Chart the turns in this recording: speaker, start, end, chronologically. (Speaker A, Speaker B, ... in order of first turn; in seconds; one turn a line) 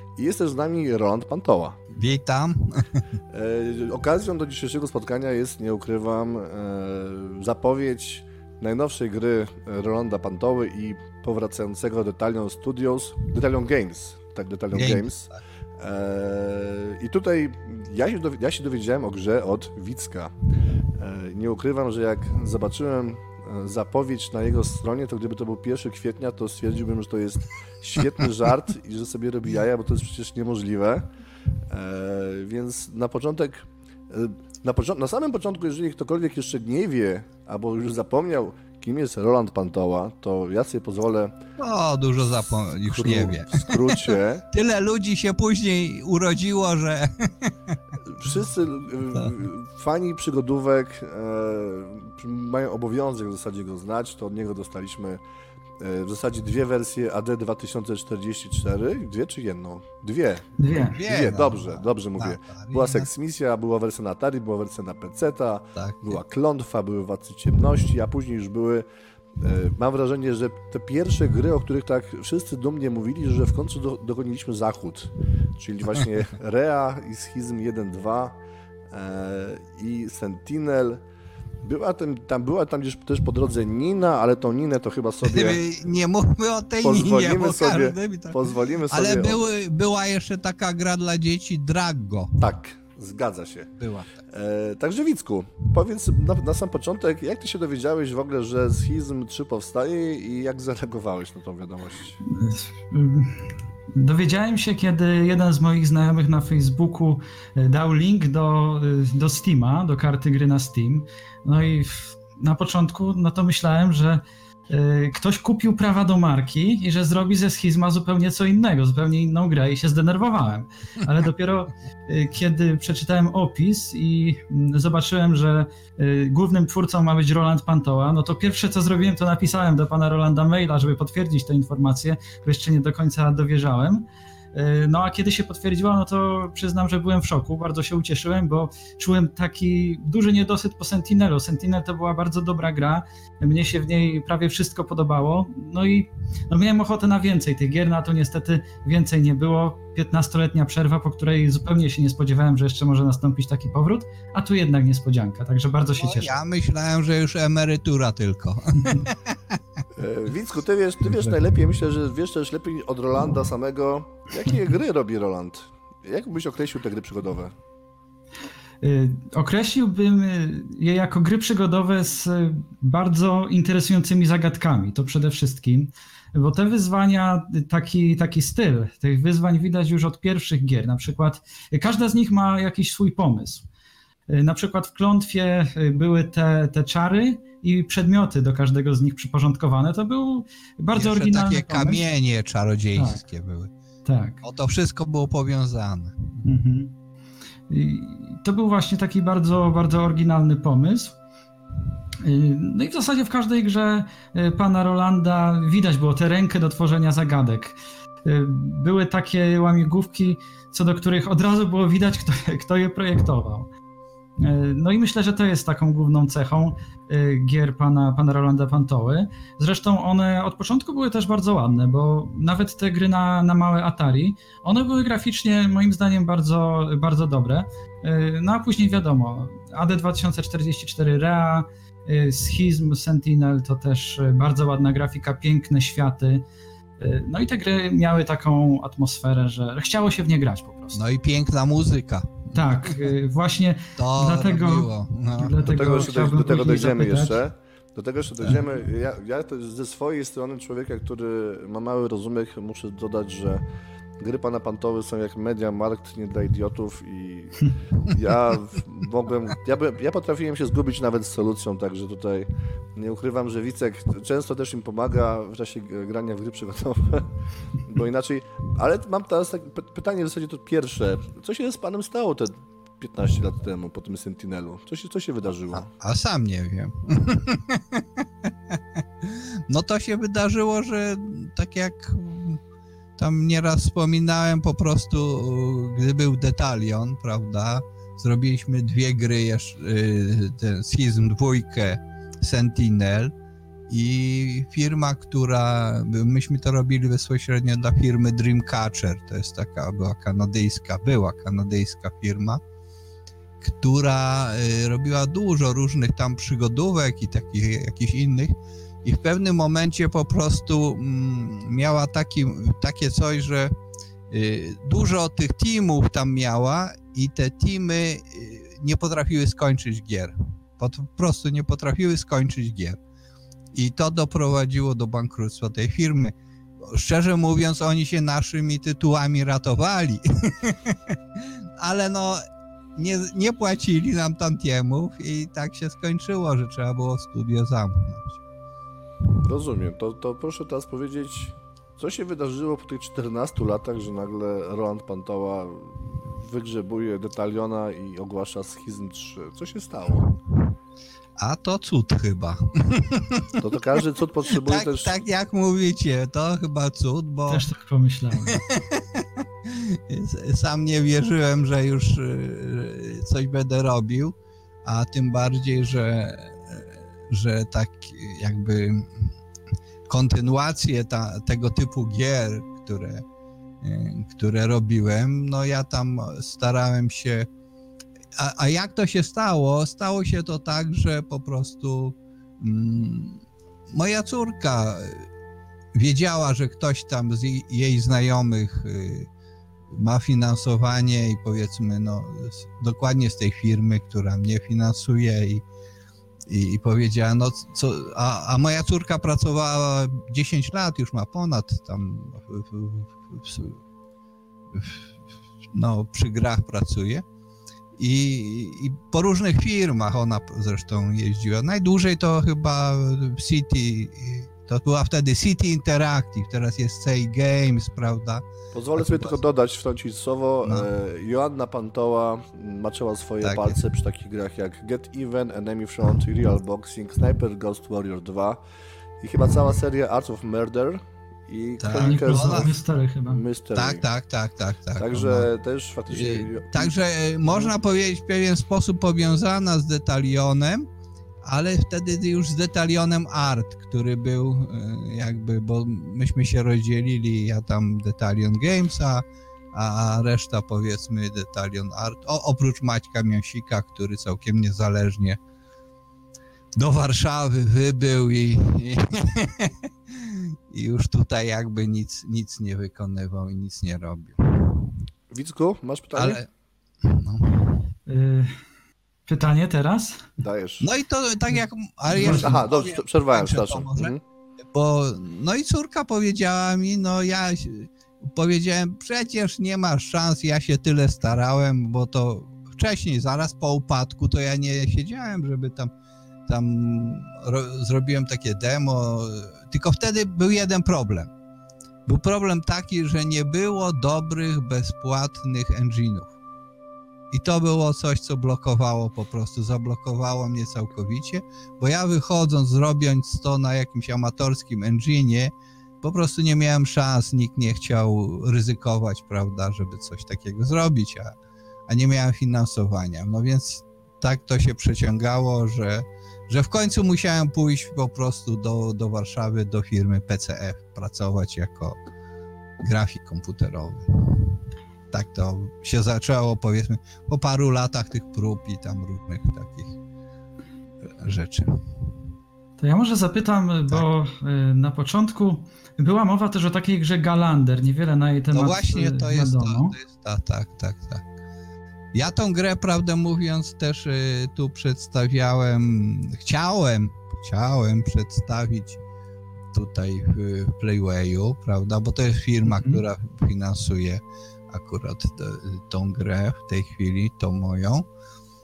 Speaker A: 0.2-1.8
Speaker B: 1.9-3.0
Speaker A: 3.3-20.3
Speaker B: 14.7-15.4
Speaker A: 21.0-31.1
Speaker A: 31.7-41.4
Speaker B: 41.6-47.5
Speaker A: 42.9-44.5
Speaker A: 48.0-55.2
Speaker A: 55.8-60.5
Speaker C: 60.6-61.0
Speaker B: 60.9-63.1
Speaker A: 61.0-68.9
Speaker B: 65.8-66.2
Speaker A: 69.4-78.4
Speaker A: 78.9-81.0
Speaker A: 81.6-85.6
Speaker B: 85.2-92.4
Speaker A: 86.8-89.4
Speaker A: 92.4-93.7
Speaker B: 93.8-94.2
Speaker A: 94.3-102.2
Speaker C: 102.2-156.3
Speaker B: 156.0-159.6
Speaker A: 159.9-167.5
Speaker B: 161.0-161.4
Speaker C: 168.8-183.7
Speaker C: 184.3-192.0
Speaker B: 190.9-193.7
Speaker C: 193.0-193.2
Speaker C: 194.1-194.4
Speaker B: 194.4-196.5
Speaker C: 196.4-196.9
Speaker C: 197.7-201.2
Speaker C: 202.2-213.7
Speaker C: 214.4-236.4
Speaker C: 237.0-241.0
Speaker B: 240.9-243.1
Speaker C: 242.5-247.4
Speaker B: 244.0-245.9
Speaker A: 245.6-253.6
Speaker A: 254.2-275.9
Speaker B: 275.7-282.6
Speaker B: 283.2-293.3
Speaker B: 293.9-302.6
Speaker B: 303.6-313.7
Speaker B: 314.3-323.0
Speaker B: 323.7-332.4
Speaker B: 333.0-338.4
Speaker A: 339.4-350.3
Speaker B: 351.4-353.6
Speaker A: 353.6-355.1
Speaker B: 354.5-357.7
Speaker C: 357.5-358.6
Speaker B: 358.5-369.3
Speaker B: 370.1-373.2
Speaker B: 373.8-377.5
Speaker B: 378.4-385.3
Speaker B: 385.9-389.3
Speaker B: 389.9-395.6
Speaker B: 396.5-403.8
Speaker B: 404.7-405.0
Speaker B: 405.7-407.2
Speaker B: 408.0-419.4
Speaker A: 418.7-428.6
Speaker B: 420.6-420.9
Speaker B: 423.4-423.8
Speaker A: 429.2-432.7
Speaker B: 431.8-432.7
Speaker C: 432.0-433.4
Speaker A: 433.3-434.1
Speaker B: 433.8-435.5
Speaker A: 435.0-436.9
Speaker B: 436.1-440.9
Speaker B: 441.4-455.4
Speaker B: 456.8-464.9
Speaker A: 465.3-466.4
Speaker B: 466.1-466.5
Speaker B: 467.0-467.8
Speaker C: 468.1-468.6
Speaker C: 469.3-470.3
Speaker A: 470.4-470.9
Speaker B: 470.8-474.1
Speaker A: 472.1-474.2
Speaker C: 472.1-472.6
Speaker B: 474.7-485.9
Speaker B: 486.5-491.3
Speaker B: 492.1-496.4
Speaker B: 497.3-511.4
Speaker B: 511.9-522.0
Speaker B: 522.8-524.6
Speaker B: 525.1-530.0
Speaker B: 531.1-531.8
Speaker C: 532.8-540.0
Speaker B: 538.5-541.2
Speaker B: 542.1-549.0
Speaker B: 549.7-558.1
Speaker C: 552.7-553.0